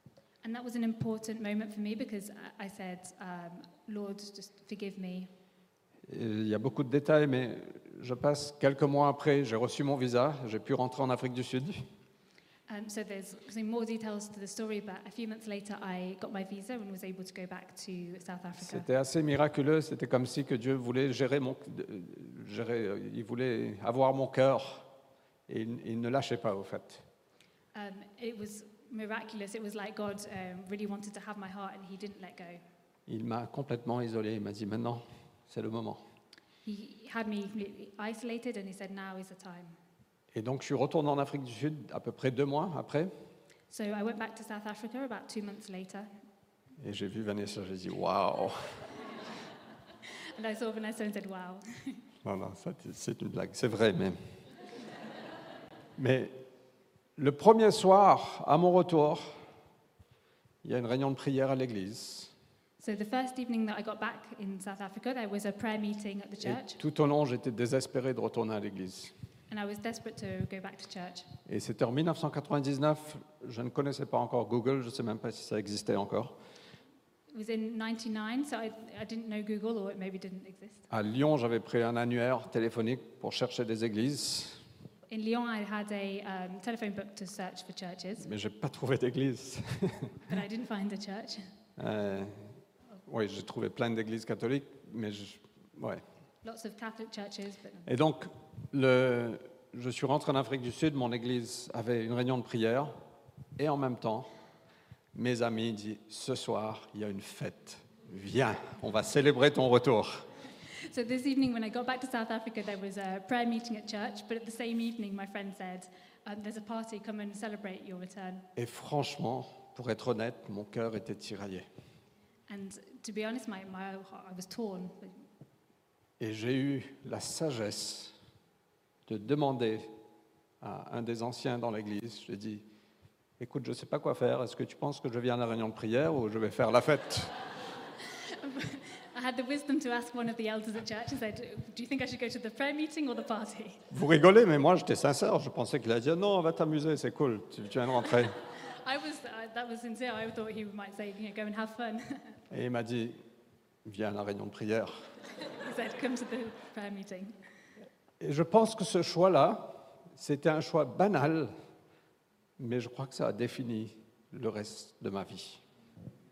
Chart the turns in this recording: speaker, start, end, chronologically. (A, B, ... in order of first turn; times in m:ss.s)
0:00.4-0:05.3 A
0:06.1-0:11.8 B
0:12.7-0:18.9 A
0:18.6-0:24.9 B
0:25.5-0:27.0 B
0:27.8-0:32.6 A
0:33.1-0:36.0 B
0:36.6-0:39.8 A
0:40.3-0:43.1 B
0:43.7-0:46.1 A
0:46.8-0:48.8 B
0:50.4-0:52.0 A
0:52.2-0:54.2 B
0:56.0-0:56.3 B
0:57.2-0:59.3 B
1:00.6-1:02.3 B
1:02.8-1:06.8 A
1:06.4-1:09.1 B
1:09.5-1:11.3 A
1:11.5-1:16.4 B
1:17.3-1:20.9 A
1:20.9-1:24.6 B
1:25.1-1:28.3 A
1:28.2-1:30.2 B
1:30.3-1:31.5 A
1:31.8-1:32.5 B
1:33.1-1:36.0 B
1:36.4-1:37.9 A
1:37.9-1:42.9 B
1:43.6-1:44.3 B
1:45.1-1:50.3 B
1:50.8-1:58.5 A
1:58.6-2:01.7 B
2:02.5-2:05.2 A
2:06.2-2:08.1 B
2:09.1-2:09.9 B
2:10.6-2:12.6 B
2:13.4-2:17.4 B
2:18.3-2:23.8 A
2:23.9-2:28.4 B
2:28.7-2:32.4 A
2:32.5-2:33.2 B
2:33.8-2:35.1 B
2:35.5-2:37.4 A
2:38.2-2:41.5 B
2:42.6-2:45.6 B